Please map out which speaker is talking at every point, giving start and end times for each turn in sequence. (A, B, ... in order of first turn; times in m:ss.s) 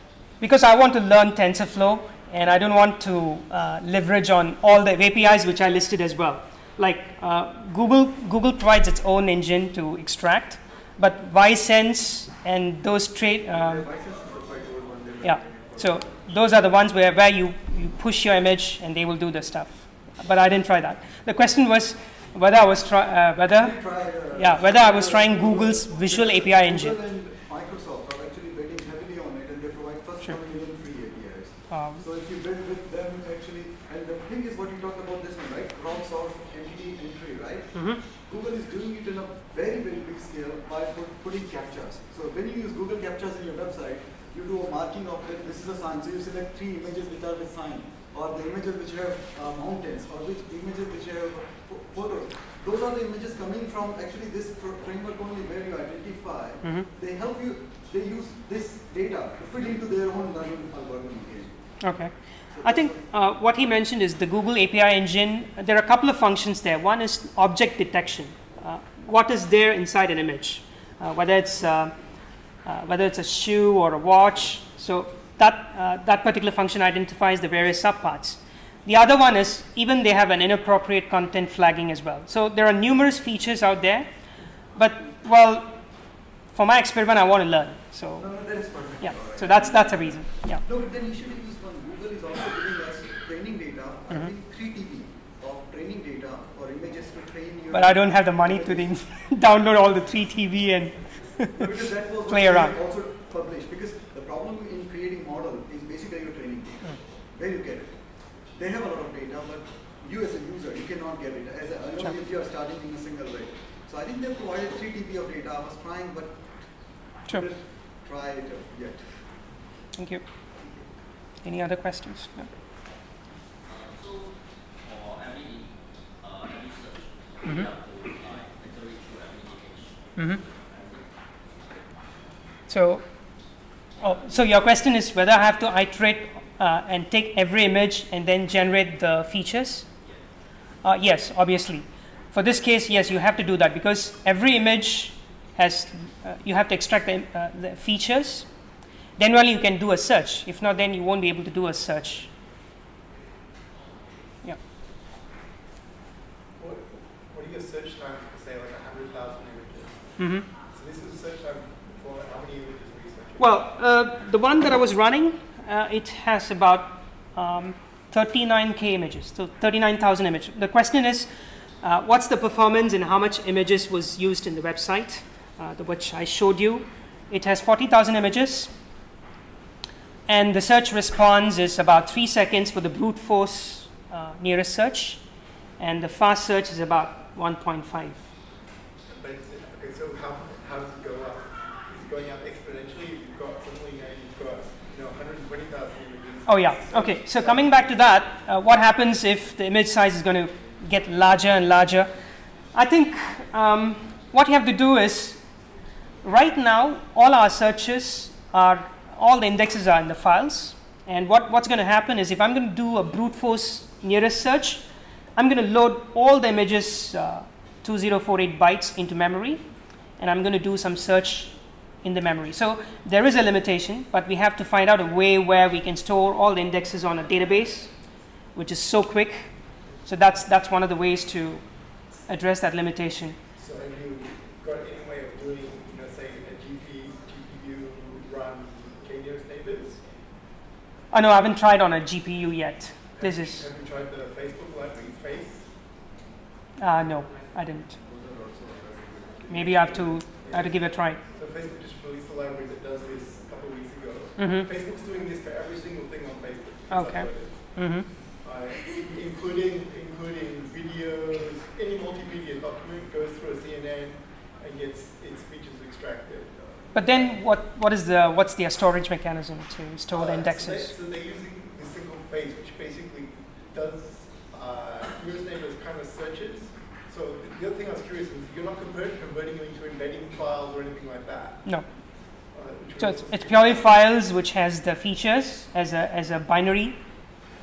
0:00.4-0:13.8 A
0:13.5-0:16.1 B
0:15.2-0:27.0 A
0:23.6-1:01.7 B
0:31.7-0:32.0 A
0:37.7-0:38.0 A
1:01.8-1:11.9 A
1:02.5-1:03.0 B
1:12.6-1:24.1 A
1:24.7-1:25.9 A
1:26.5-1:28.3 A
1:28.2-1:38.9 B
1:29.0-1:30.6 A
1:37.7-1:41.6 A
1:41.5-1:56.5 B
1:42.3-1:42.8 A
1:57.0-1:59.1 B
1:59.9-2:00.2 A
2:00.6-2:00.8 B
2:01.4-2:02.5 A
2:03.6-2:11.1 C
2:12.7-2:13.1 A
2:14.0-2:19.9 A
2:20.8-2:28.5 A
2:29.2-2:32.3 A
2:36.6-2:40.2 D
2:40.2-2:40.4 A
2:40.7-2:43.5 D
2:43.4-2:58.7 A
3:00.3-3:05.2 A
3:05.8-3:08.2 A
3:09.0-3:18.1 D
3:16.4-3:22.1 A
3:22.7-3:25.4 A
3:26.2-3:34.8 A
3:35.4-3:39.6 A
3:40.2-3:47.9 A
3:48.5-3:53.4 A
3:53.6-4:00.0 D
4:01.1-4:03.7 A
4:03.2-4:05.7 D
4:06.8-4:07.9 A
4:08.0-4:10.2 B
4:09.5-4:11.2 A
4:09.5-4:27.4 D
4:14.4-4:14.7 A
4:16.9-4:18.1 A
4:26.9-4:30.9 A
4:30.1-4:41.7 D
4:42.5-4:43.9 D
4:43.0-4:47.0 A